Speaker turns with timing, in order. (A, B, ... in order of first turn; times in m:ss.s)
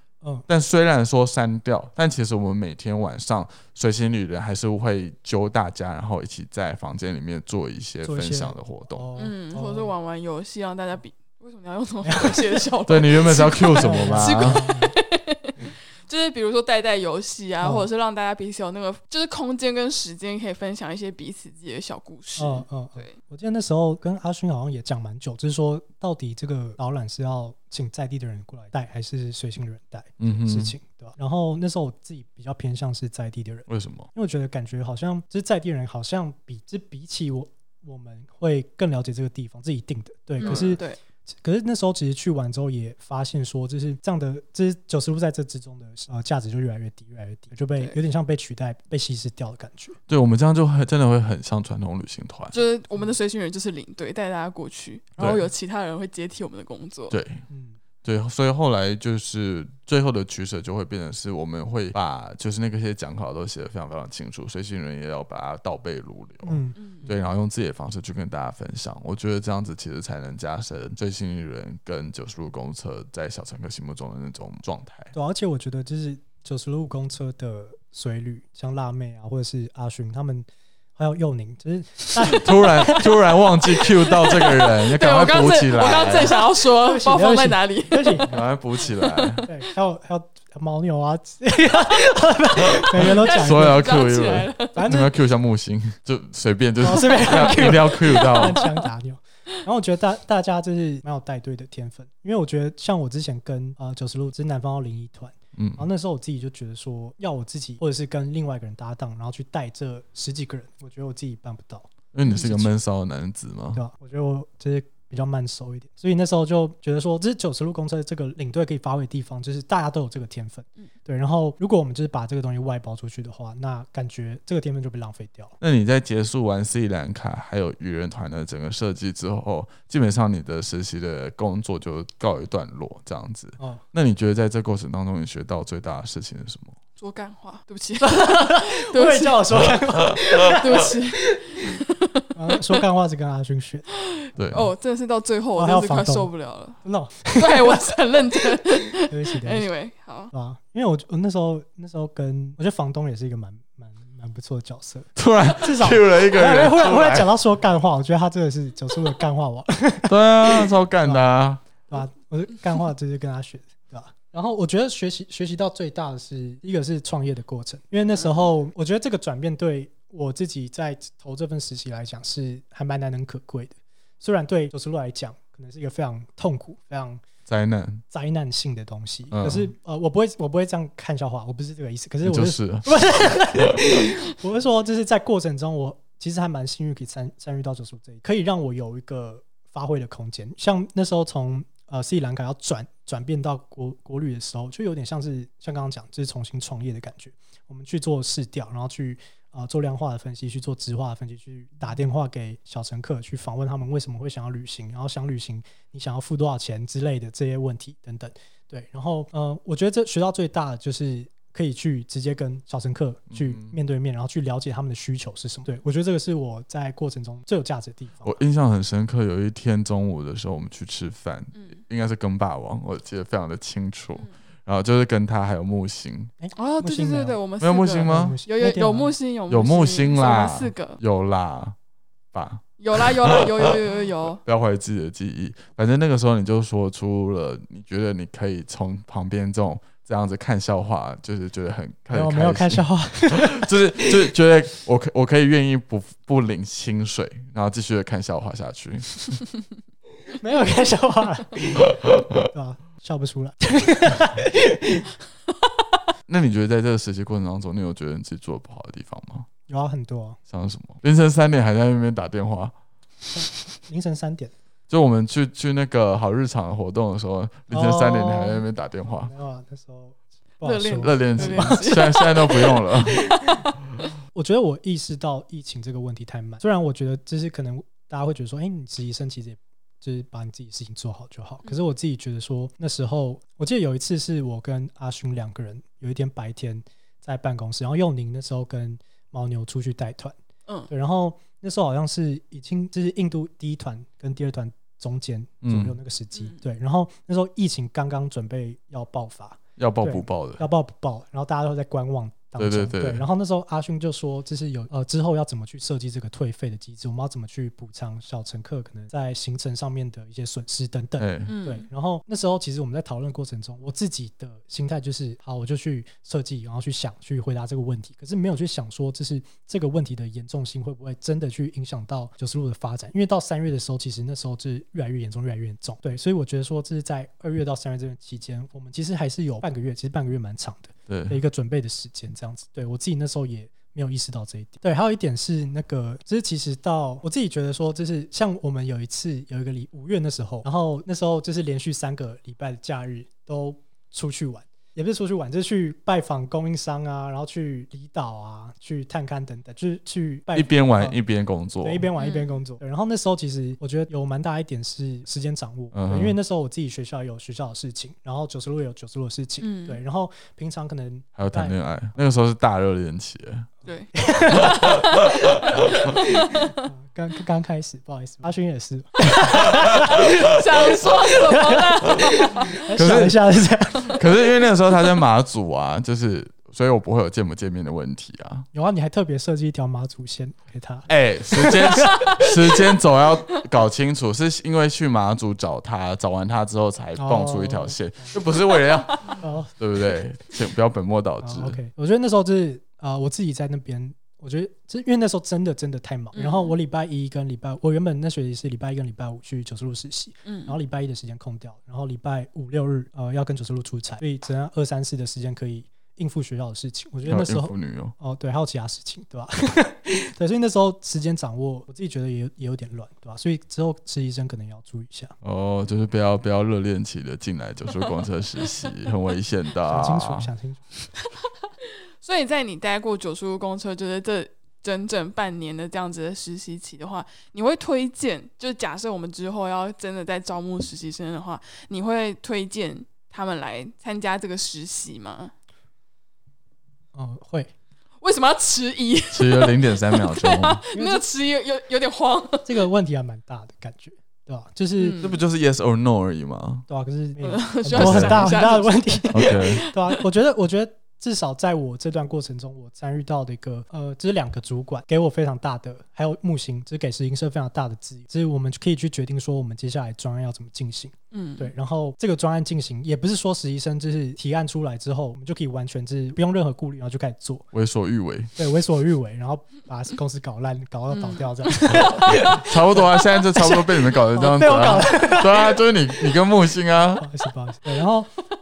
0:00.5-0:09.0 A
0:08.0-0:09.9 B
0:09.2-0:23.2 C
0:12.0-0:12.7 B
0:12.9-0:14.6 A
0:13.8-0:14.9 B
0:17.6-0:17.9 B
0:22.4-0:50.0 B
0:30.2-0:30.7 A
0:33.7-0:34.1 A
0:40.4-0:41.0 C
0:40.4-0:40.8 A
0:50.1-0:52.6 A
0:52.5-0:57.1 C
0:55.2-0:55.5 B
0:57.1-0:57.4 A
0:57.5-0:57.8 B
0:58.0-1:15.1 A
1:06.4-1:07.1 B
1:06.8-1:07.1 C
1:15.1-1:23.1 B
1:22.3-1:26.4 A
1:24.2-1:28.4 C
1:26.8-1:28.4 B
1:28.3-1:29.5 A
1:29.5-1:33.9 B
1:32.7-1:38.6 A
1:32.9-1:34.8 C
1:34.7-1:35.1 B
1:36.8-1:52.7 B
1:37.4-1:38.8 C
1:45.6-1:45.9 A
1:52.1-1:53.8 A
1:53.7-2:05.6 B
2:05.6-2:16.8 A
2:17.0-2:19.6 C
2:18.0-2:21.0 B
2:20.2-2:22.8 C
2:22.4-2:23.9 B
2:24.0-2:26.8 C
2:24.4-2:24.7 A
2:25.6-2:26.3 B
2:26.8-2:29.7 B
2:27.3-2:30.3 C
2:30.3-2:41.2 B
2:35.2-2:37.3 A
2:40.0-2:41.6 A
2:41.9-2:57.2 B
2:57.5-2:58.0 A
2:58.1-3:38.4 B
2:59.3-2:59.7 A
3:02.2-3:03.9 A
3:33.3-3:33.8 A
3:38.2-3:46.3 A
3:41.5-3:41.8 C
3:46.4-3:47.4 B
3:46.6-3:51.0 C
3:47.6-3:48.4 A
3:48.0-3:49.2 B
3:49.5-3:51.8 A
3:52.3-3:52.6 A
3:52.8-3:54.4 C
3:54.4-4:09.2 A
4:02.1-4:04.1 B
4:10.3-4:15.2 B
4:16.3-4:19.5 A
4:19.7-4:20.4 B
4:20.5-4:22.7 A
4:23.4-4:24.5 B
4:24.9-4:29.3 A
4:27.7-4:32.2 B
4:30.6-4:33.7 C
4:31.0-4:33.2 A
4:33.3-4:33.6 B
4:34.3-4:50.4 B
4:50.9-5:51.2 B
4:55.6-4:56.0 A
4:56.4-4:56.6 C
4:59.8-5:00.6 A
5:02.6-5:03.2 A
5:11.2-5:11.5 A
5:11.5-5:11.9 C
5:31.1-5:31.4 A
5:50.5-5:52.1 A
5:51.8-6:01.8 B
5:52.2-5:52.5 C
5:55.9-5:56.4 A
5:59.6-6:00.0 C
6:01.4-6:03.7 A
6:03.9-6:06.7 C
6:04.1-6:14.2 B
6:09.5-6:12.9 C
6:12.9-6:13.4 A
6:14.1-6:18.7 A
6:18.7-6:22.5 B
6:21.1-6:31.8 A
6:22.0-6:22.5 C
6:27.2-6:28.4 B
6:29.3-6:29.7 B
6:31.4-6:55.4 B
6:36.4-6:36.8 C
6:40.4-6:40.8 C
6:47.3-6:48.1 A
6:55.4-7:00.5 A
6:59.9-7:00.8 B
7:02.2-7:15.5 C
7:17.1-7:17.7 B
7:18.2-7:22.8 C
7:19.3-7:20.8 A
7:20.9-7:21.2 B
7:22.6-7:25.2 B
7:25.0-7:25.4 C
7:25.2-7:26.9 A
7:26.9-7:47.7 B
7:27.4-7:30.2 C
7:27.9-7:28.6 A
7:29.3-7:29.9 A
7:41.3-7:41.7 C
7:47.7-7:48.5 A
7:48.6-7:53.1 B
7:51.1-7:52.7 C
7:51.9-7:57.3 A
7:53.6-7:55.9 B
7:57.2-7:58.3 B